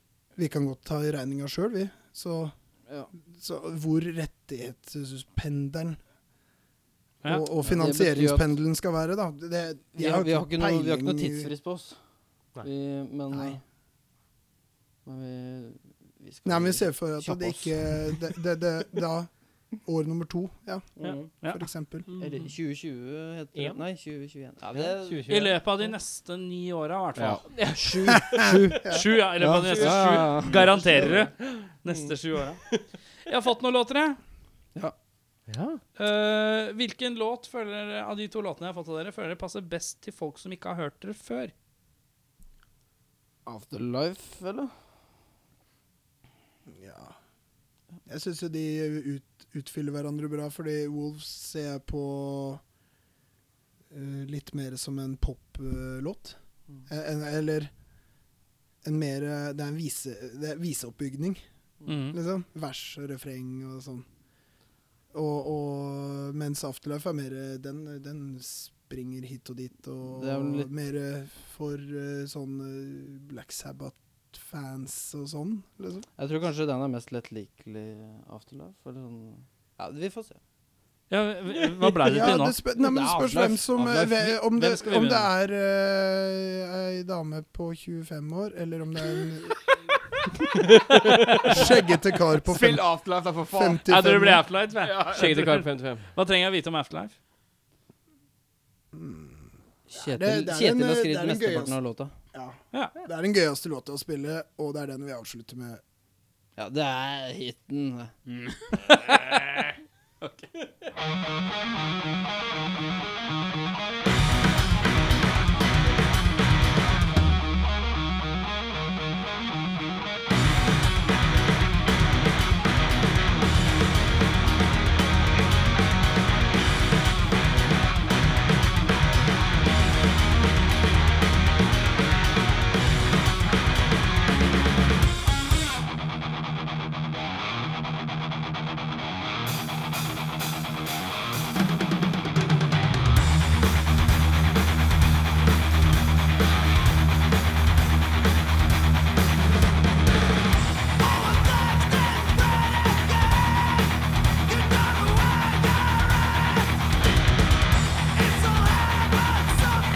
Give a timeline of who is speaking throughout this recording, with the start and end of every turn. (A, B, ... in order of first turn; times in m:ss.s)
0:00.4-0:02.5 A
0:03.3-0:06.0 A
0:07.2-0:11.5 A
0:07.6-0:08.5 B
0:10.0-0:12.0 B
0:12.6-0:13.6 B
0:13.3-0:13.6 A
0:15.1-0:18.3 B
0:16.4-0:19.3 A
0:19.8-0:22.1 A
0:21.0-0:21.4 B
0:22.1-0:22.5 C
0:22.2-0:25.5 B
0:23.6-0:23.8 C
0:24.7-0:25.5 C
0:25.3-0:27.5 D
0:27.5-0:28.5 C
0:27.7-0:31.3 B
0:28.1-0:29.0 A
0:28.9-0:32.6 D
0:29.6-0:31.7 C
0:33.2-0:34.2 D
0:35.5-0:35.8 C
0:36.0-0:41.5 D
0:43.5-0:44.7 B
0:46.7-0:47.1 A
0:48.1-0:52.6 A
0:53.9-0:57.7 A
0:58.8-1:01.4 A
1:01.9-1:02.2 D
1:02.1-1:04.1 A
1:05.1-1:16.1 A
1:10.1-1:10.7 B
1:16.2-1:20.4 B
1:21.1-1:22.6 D
1:22.0-1:29.7 A
1:22.8-1:24.2 B
1:23.9-1:25.3 D
1:31.0-1:31.5 C
1:31.4-1:32.9 A
1:32.4-1:33.8 E
1:33.5-1:34.5 A
1:33.9-1:37.1 D
1:34.8-1:35.6 E
1:35.1-1:36.1 C
1:38.9-1:41.8 A
1:39.9-1:42.1 B
1:42.3-1:45.8 A
1:46.6-1:48.1 B
1:48.3-1:48.6 E
1:48.9-1:50.5 D